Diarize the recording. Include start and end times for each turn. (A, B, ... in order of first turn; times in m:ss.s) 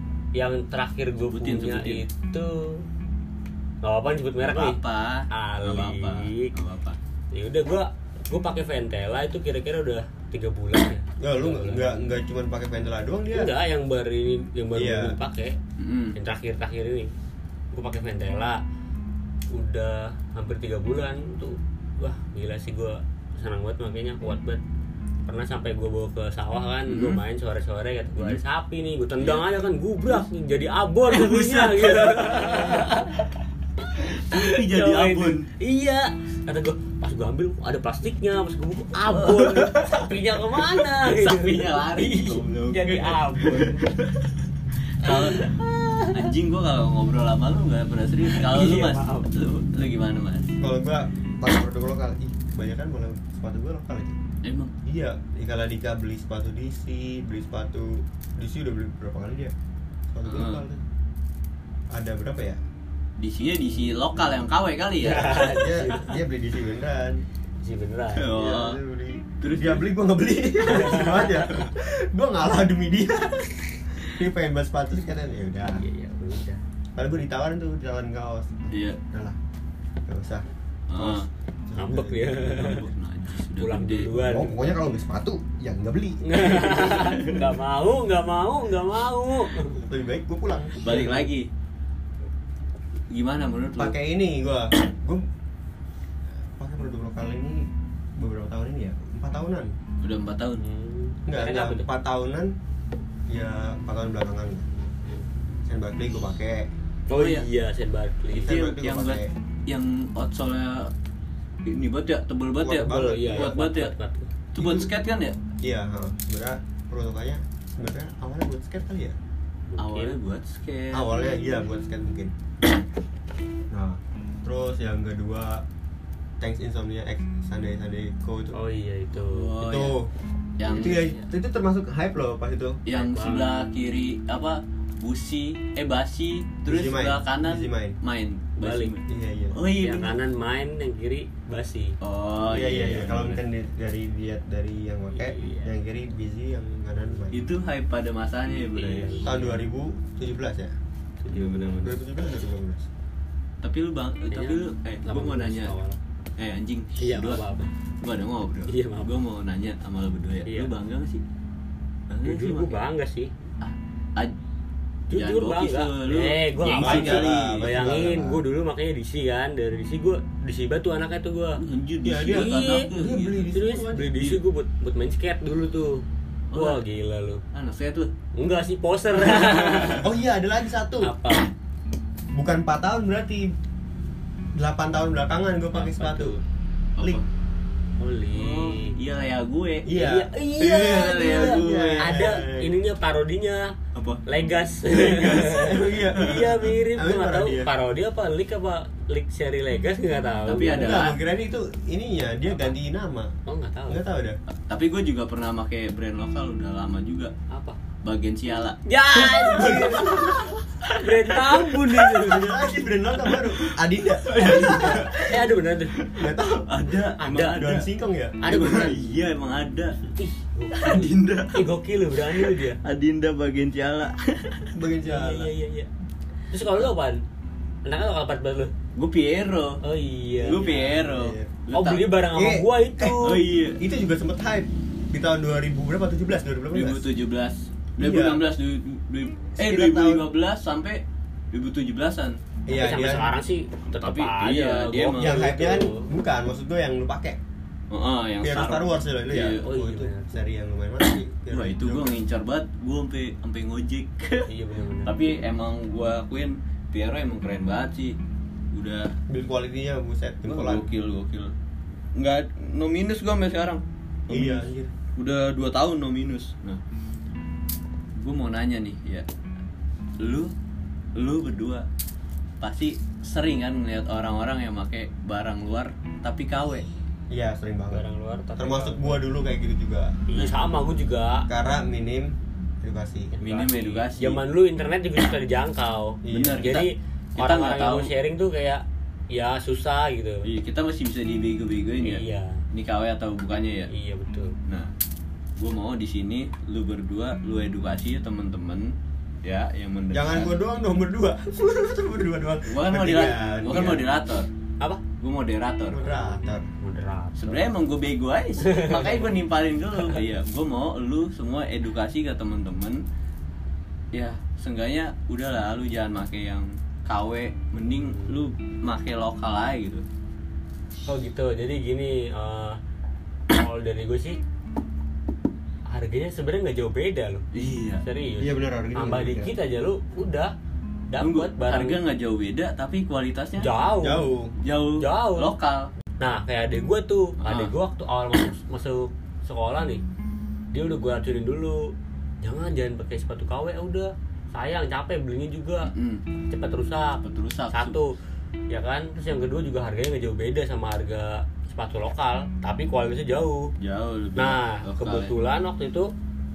0:00.3-0:02.9 A
0:01.2-0:02.0 B
0:03.8-0:06.5 A
0:04.4-0:07.0 B
0:07.3-0:11.9 A
0:11.2-0:13.5 C
0:13.3-0:15.6 A
0:14.7-0:15.2 C
0:15.8-0:16.2 B
0:16.1-0:17.1 A
0:17.7-0:18.6 A
0:19.5-0:24.6 A
0:25.2-0:33.3 A
0:26.9-0:27.2 B
0:29.2-0:29.5 B
0:31.1-0:33.0 B
0:34.0-0:35.5 B
0:34.1-0:43.9 A
0:39.1-0:44.3 B
0:45.0-0:45.5 B
0:45.0-0:46.3 A
0:46.0-0:50.5 B
0:48.2-0:49.3 A
0:50.6-0:54.2 C
0:54.4-0:54.7 B
0:54.8-0:59.5 C
1:00.1-1:00.8 C
1:00.2-1:00.6 B
1:01.9-1:02.6 C
1:03.2-1:05.6 B
1:05.0-1:06.1 A
1:05.2-1:07.2 C
1:07.6-1:08.4 A
1:08.1-1:08.8 B
1:08.3-1:15.8 C
1:09.4-1:09.9 B
1:10.6-1:11.2 A
1:10.8-1:11.6 B
1:15.6-1:16.6 A
1:16.9-1:19.4 C
1:18.7-1:19.0 B
1:20.0-1:22.4 C
1:20.9-1:21.3 B
1:21.8-1:22.8 A
1:22.3-1:24.3 B
1:23.5-1:24.7 A
1:24.2-1:26.3 C
1:26.2-1:29.8 A
1:26.6-1:27.4 B
1:29.7-1:31.0 C
1:30.8-1:31.5 B
1:30.8-1:31.3 A
1:33.1-1:34.0 B
1:33.8-1:35.2 C
1:36.6-1:39.7 C
1:40.0-1:40.6 B
1:40.6-1:41.8 A
1:41.2-1:42.5 C
1:43.3-1:44.6 C
1:45.6-1:46.7 C
1:47.1-1:48.5 A
1:47.1-1:47.5 B
1:48.3-1:49.3 C
1:48.3-1:50.9 B
1:51.6-1:53.9 B
1:52.6-1:53.5 C
1:53.1-1:54.3 A
1:54.5-1:55.4 B
1:54.6-1:54.9 C
1:55.6-1:59.2 C
1:59.7-2:00.2 A
1:59.8-2:01.1 B
2:00.9-2:02.3 C
2:03.7-2:05.6 C
2:06.4-2:08.6 C
2:08.5-2:09.5 A
2:09.1-2:10.0 B
2:09.6-2:10.1 C
2:10.6-2:11.0 B
2:10.6-2:12.8 C
2:10.8-2:11.2 A
2:12.8-2:20.2 B
2:12.9-2:13.7 A
2:16.7-2:18.0 C
2:18.6-2:18.9 A
2:19.1-2:19.6 C
2:19.8-2:22.0 A
2:22.0-2:23.4 B
2:22.5-2:27.4 C
2:25.1-2:25.7 A
2:27.3-2:29.3 B
2:28.7-2:29.6 A
2:29.2-2:30.7 C
2:31.2-2:32.0 A
2:31.3-2:31.8 B
2:31.6-2:32.8 C
2:33.6-2:35.7 B
2:34.3-2:36.0 A
2:36.4-2:37.4 B
2:37.0-2:37.7 A
2:38.0-2:41.2 B
2:38.7-2:39.2 A
2:40.4-2:40.7 A
2:42.1-2:42.8 B
2:42.2-2:43.3 A
2:43.6-2:44.3 B
2:45.1-2:52.9 A
2:45.1-2:47.8 B
2:46.7-2:48.4 C
2:51.6-2:53.5 B
2:52.0-2:54.2 C
2:53.5-2:57.4 A
2:56.5-2:56.8 B
2:57.5-2:58.1 B
2:58.4-3:00.1 A
2:59.2-3:00.0 B
3:00.0-3:01.1 C
3:01.0-3:01.5 A
3:02.3-3:03.5 C
3:04.5-3:06.4 C
3:05.7-3:06.4 A
3:07.0-3:07.2 B
3:08.0-3:09.0 A
3:08.3-3:09.9 B
3:09.8-3:10.3 C
3:09.9-3:21.0 A
3:10.6-3:12.3 B
3:11.0-3:12.7 C
3:13.9-3:14.2 B
3:14.9-3:15.7 B
3:15.5-3:17.7 C
3:20.4-3:21.2 B
3:20.7-3:23.3 C
3:23.4-3:24.0 A
3:23.9-3:24.4 C
3:24.7-3:27.3 B
3:27.5-3:27.8 A
3:28.0-3:28.8 B
3:28.8-3:30.2 A
3:29.4-3:32.0 B
3:29.5-3:30.4 C
3:30.9-3:32.5 A
3:32.2-3:35.2 C
3:33.2-3:33.6 B
3:34.2-3:35.2 B
3:35.2-3:35.9 A
3:36.0-3:37.9 B
3:36.1-3:36.7 C
3:37.2-3:37.7 A
3:37.4-3:38.4 C
3:38.4-3:39.0 A
3:38.5-3:40.0 B
3:40.2-3:42.8 A
3:40.7-3:41.7 B
3:42.3-3:44.7 B
3:44.7-3:45.5 C
3:45.0-3:45.9 A
3:46.5-3:47.2 A
3:47.8-3:48.7 A
3:49.0-3:49.8 B
3:49.8-3:51.0 A
3:50.4-3:51.6 C
3:50.4-3:52.2 B
3:51.7-3:53.4 A
3:52.3-3:57.0 C
3:53.2-3:53.8 B
3:56.7-4:02.4 B
3:58.0-3:58.4 C
3:59.6-4:00.3 C
4:02.7-4:03.4 C
4:02.7-4:06.1 A
4:04.0-4:05.4 B
4:05.1-4:07.4 C
4:07.9-4:09.7 B
4:08.4-4:12.2 C
4:09.6-4:10.3 A
4:11.5-4:14.5 B
4:14.5-4:15.1 A
4:15.0-4:18.2 B
4:18.7-4:19.2 B
4:19.3-4:20.8 C
4:20.5-4:21.5 B
4:22.2-4:26.8 B
4:24.3-4:24.9 C
4:28.2-4:29.2 B
4:30.2-4:30.5 B
4:31.2-4:31.8 B
4:32.6-4:36.9 B
4:37.3-4:38.0 C
4:37.9-4:39.2 A
4:38.6-4:40.2 C
4:40.3-4:41.5 A
4:40.3-4:40.6 B
4:41.5-4:43.3 C
4:43.4-4:50.5 A
4:43.4-4:44.4 B
4:46.2-4:46.6 C
4:46.3-4:48.1 B
4:50.4-4:53.9 B
4:52.0-4:52.6 A
4:53.9-4:54.5 A
4:55.6-5:00.5 B
5:00.1-5:04.0 C
5:02.7-5:04.5 B
5:05.2-5:06.0 B
5:05.9-5:06.7 C
5:05.9-5:07.6 A
5:07.4-5:13.0 B
5:08.6-5:09.3 A
5:14.1-5:20.0 B
5:18.0-5:18.4 A
5:21.0-5:22.8 A
5:23.5-5:24.4 A
5:25.9-5:27.5 A
5:27.5-5:28.0 B
5:28.0-5:30.5 A
5:28.4-5:29.5 C
5:31.1-5:32.0 A
5:31.2-5:33.7 B
5:33.6-5:34.3 A
5:34.0-5:34.5 C
5:34.6-5:35.9 B
5:35.0-5:35.5 A
5:36.2-5:40.0 A
5:37.4-5:37.7 B
5:40.7-5:45.9 A
5:45.8-5:46.2 B
5:46.5-5:48.2 A
5:47.2-5:48.0 B
5:48.7-5:53.7 A
5:53.8-5:55.3 B
5:54.4-5:56.1 A